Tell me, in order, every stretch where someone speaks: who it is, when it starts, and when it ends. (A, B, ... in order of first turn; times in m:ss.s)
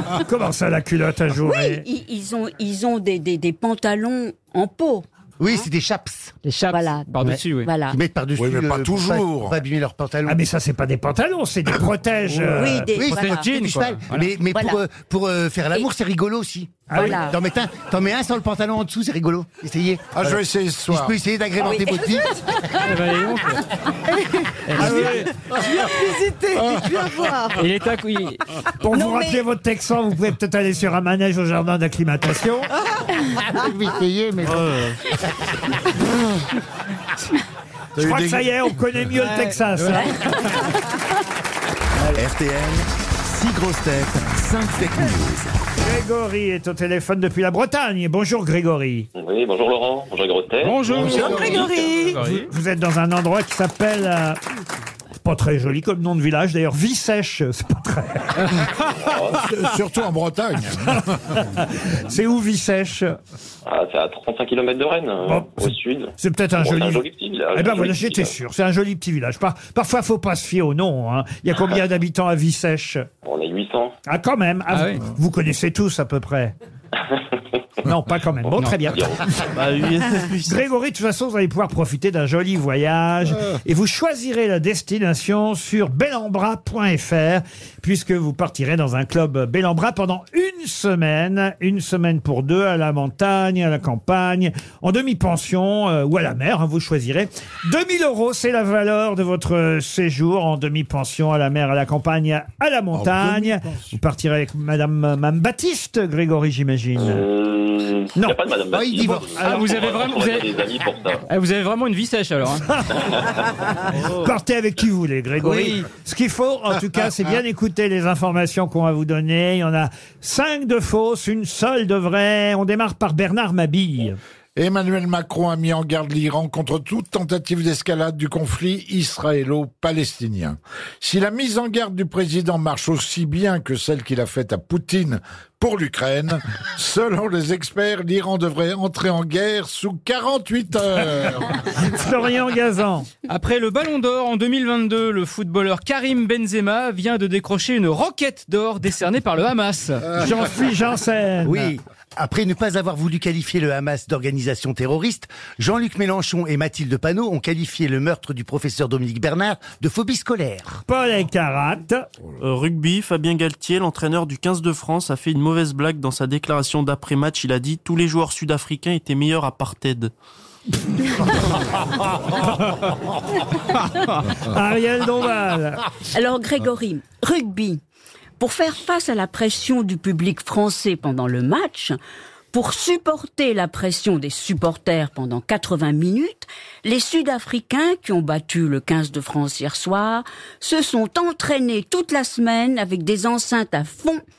0:00.2-0:01.8 A
0:01.4-0:05.6 B
0:05.4-0:06.4 C
0:06.4-0:07.7 D
0:06.7-0:08.0 B
0:07.9-0:10.4 C
0:08.4-0:09.6 E
0:10.2-0:12.9 A
0:12.5-0:13.5 B
0:12.6-0:14.3 D
0:12.9-0:22.4 C
0:14.5-0:14.8 B
0:16.9-0:17.2 A
0:16.9-0:17.4 B
0:20.1-0:21.1 E
0:21.6-0:22.8 B
0:22.8-0:23.6 D
0:24.7-0:25.3 D
0:24.7-0:27.6 F
0:24.8-0:25.3 A
0:26.7-0:27.3 E
0:27.5-0:28.4 D
0:28.8-0:32.7 A
0:28.9-0:29.4 B
0:33.4-0:35.3 C
0:34.4-0:35.0 G
0:38.0-0:38.5 E
0:38.0-0:40.4 A
0:39.2-0:40.1 D
0:42.1-0:45.5 H
0:45.8-0:49.1 A
0:49.1-0:50.9 I
0:50.6-0:52.5 D
0:50.8-0:51.7 E
0:50.9-0:52.2 F
0:52.2-0:54.4 A
0:55.2-0:58.4 A
0:58.4-0:59.0 D
0:58.9-0:59.4 I
0:59.4-1:01.1 E
1:00.9-1:03.2 A
1:03.6-1:08.3 I
1:05.2-1:13.0 A
1:13.2-1:14.0 I
1:14.0-1:16.5 A
1:14.7-1:15.0 D
1:17.0-1:17.4 I
1:17.8-1:19.3 A
1:18.9-1:19.4 I
1:19.5-1:20.6 G
1:20.4-1:47.2 A
1:42.9-1:43.9 E
1:47.0-1:51.2 I
1:48.7-1:49.4 C
1:49.4-1:50.5 D
1:51.3-1:52.7 D
1:52.7-1:53.1 A
1:53.0-1:53.3 I
1:53.9-2:04.2 A
1:55.4-1:55.8 F
2:04.6-2:21.6 E
2:21.7-2:23.1 A
2:23.3-2:30.1 D
2:30.2-2:31.7 A
2:31.4-2:40.8 C
2:40.9-2:42.1 A
2:42.4-2:50.1 G
2:54.4-2:55.8 A
2:56.1-2:57.8 B
2:58.4-3:02.0 B
3:02.5-3:14.2 B